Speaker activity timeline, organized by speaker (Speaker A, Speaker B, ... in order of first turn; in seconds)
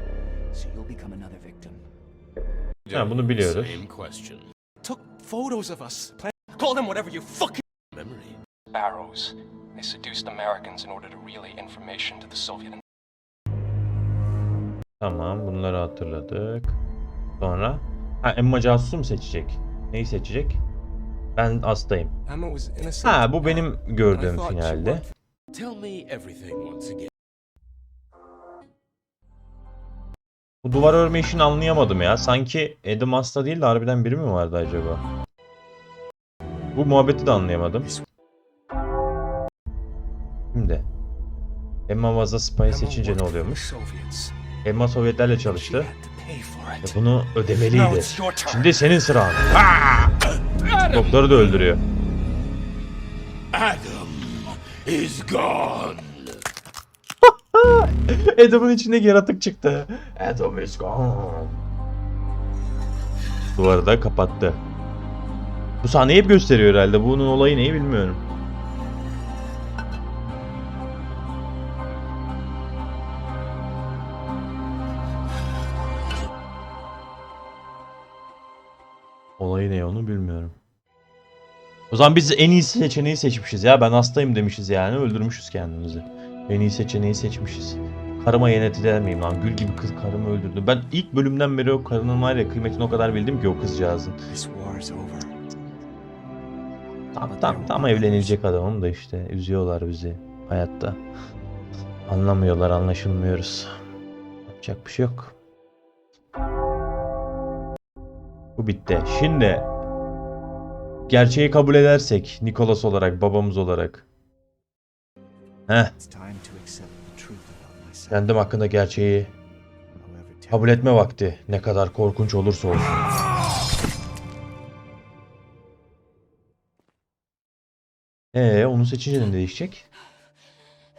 Speaker A: 0.5-1.8, 46.2-46.5, 47.7-48.8, 94.3-95.3, 97.2-98.4, 116.0-118.3, 119.9-121.0
Speaker B: 2.9-4.5, 7.9-8.4, 25.5-27.1, 49.5-51.5, 53.5-56.4
Speaker C: 2.9-3.8, 15.0-16.8, 17.4-20.6, 21.4-22.1, 23.0-25.0, 30.6-35.0, 36.7-37.9, 40.5-40.9, 41.9-43.7, 44.6-45.9, 46.8-49.5, 50.8-51.8, 57.2-61.6, 63.5-64.6, 65.8-68.2, 79.4-80.5, 81.9-94.2, 97.1-101.0, 102.1-103.7, 104.5-105.3, 108.6-109.7, 111.1-114.0, 115.7-115.9, 118.1-119.3, 120.5-123.0, 128.3-129.8
Speaker D: 4.8-7.6, 22.2-25.1, 42.6-44.3, 45.5-46.8
Speaker E: 8.7-12.8